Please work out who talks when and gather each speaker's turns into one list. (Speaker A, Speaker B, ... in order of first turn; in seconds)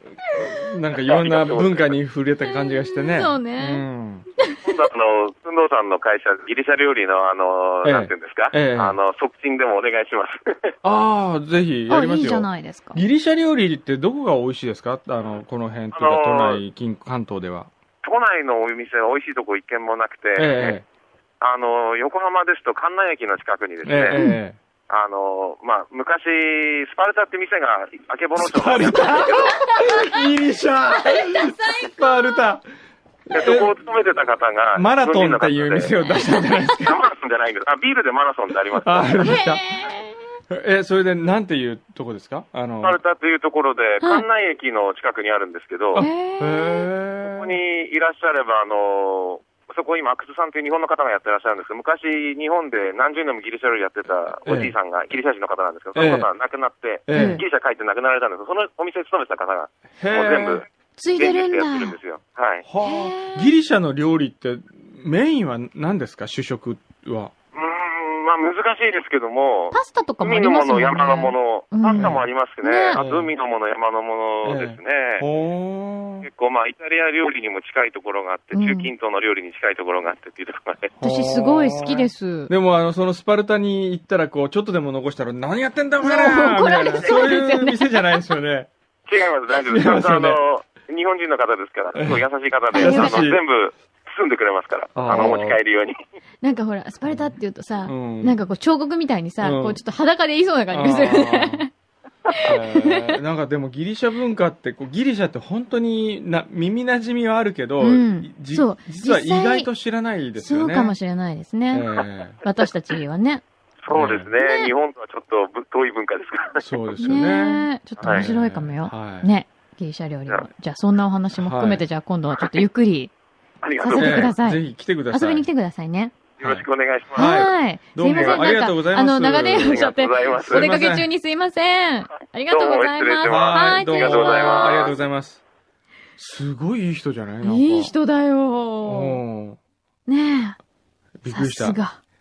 Speaker A: 0.3-4.2, 7.8-9.0, 10.8-17.7, 20.4-20.9, 23.9-24.6, 28.4-32.6, 33.3-33.7, 34.7-37.0, 38.8-39.6, 40.5-43.0, 46.0-47.6, 54.5-54.7, 56.0-56.3, 57.1-57.4, 60.0-60.6, 62.6-67.3, 72.0-72.2, 72.9-73.3, 74.4-76.3, 81.0-88.7, 89.7-90.4, 92.0-92.2, 92.7-93.4, 95.0-95.6, 97.9-98.4, 99.4-99.8, 100.7-101.7, 102.4-110.9, 111.7-112.4, 113.9-114.3, 116.6-119.3, 121.4-121.8, 124.0-125.5, 126.4-131.1, 133.2-135.4, 136.2-137.9, 138.9-139.6, 141.2-141.8
Speaker B: 1.0-2.0, 4.6-10.7, 15.9-16.6, 18.0-20.8, 21.4-24.2, 24.9-29.6, 33.3-35.9, 36.7-39.2, 42.8-46.1, 47.2-62.6, 67.5-75.2, 76.2-80.9, 89.1-96.0, 113.8-116.7, 118.0-118.3, 123.6-124.3, 126.4-127.4, 128.1-128.6, 129.5-130.7, 132.5-135.0
Speaker C: 2.5-3.9, 11.9-13.0, 24.1-24.4, 29.4-30.3, 31.0-32.4, 36.2-36.6, 39.2-40.2, 46.0-46.9, 57.1-57.4, 61.0-62.0, 62.8-63.5, 69.7-73.0, 78.5-78.9, 81.0-82.5, 86.0-88.2, 92.7-93.3, 96.4-101.7, 102.3-103.1, 107.8-109.7, 110.4-113.4, 114.4-114.7, 117.0-123.1, 123.8-126.1, 127.2-134.9, 137.4-139.2, 140.1-140.6, 141.3-142.0